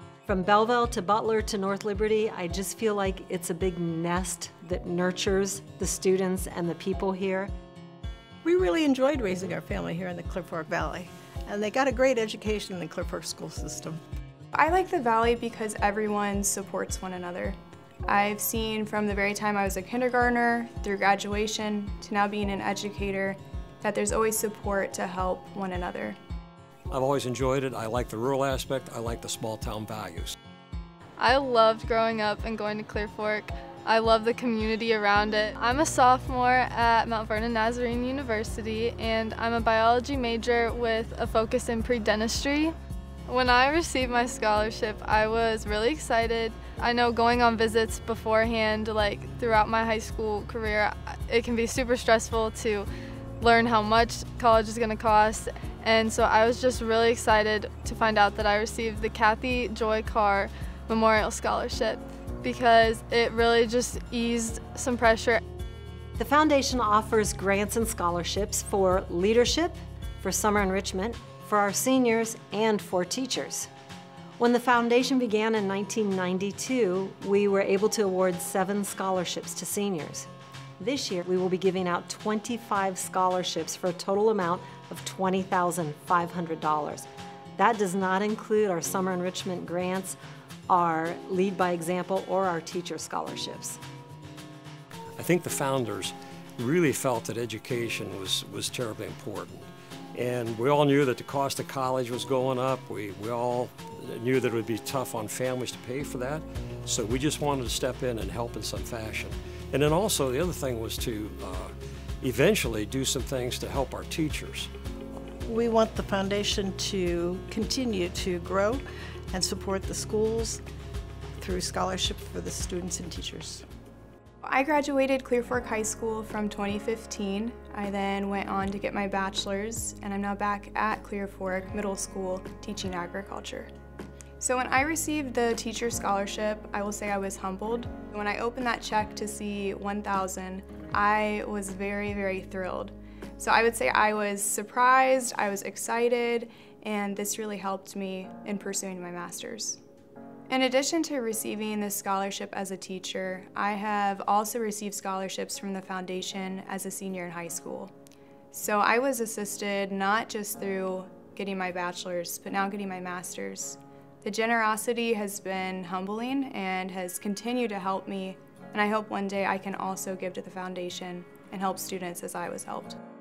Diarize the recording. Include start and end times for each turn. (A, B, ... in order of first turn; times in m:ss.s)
0:00.2-0:07.5 A
0:08.4-0:14.0 B
0:14.5-0:17.6 C
0:18.1-0:26.2 C
0:26.9-0:30.4 D
0:31.2-0:42.7 E
0:43.3-0:52.9 E
0:53.4-1:05.4 E
1:06.2-1:13.7 A
1:14.4-1:30.2 A
1:30.7-1:33.8 A
1:35.2-1:54.7 D
1:55.4-2:00.6 B
2:01.4-2:03.6 B
2:04.4-2:13.7 C
2:14.4-2:29.8 C
2:30.5-2:37.9 C
2:38.5-2:53.0 C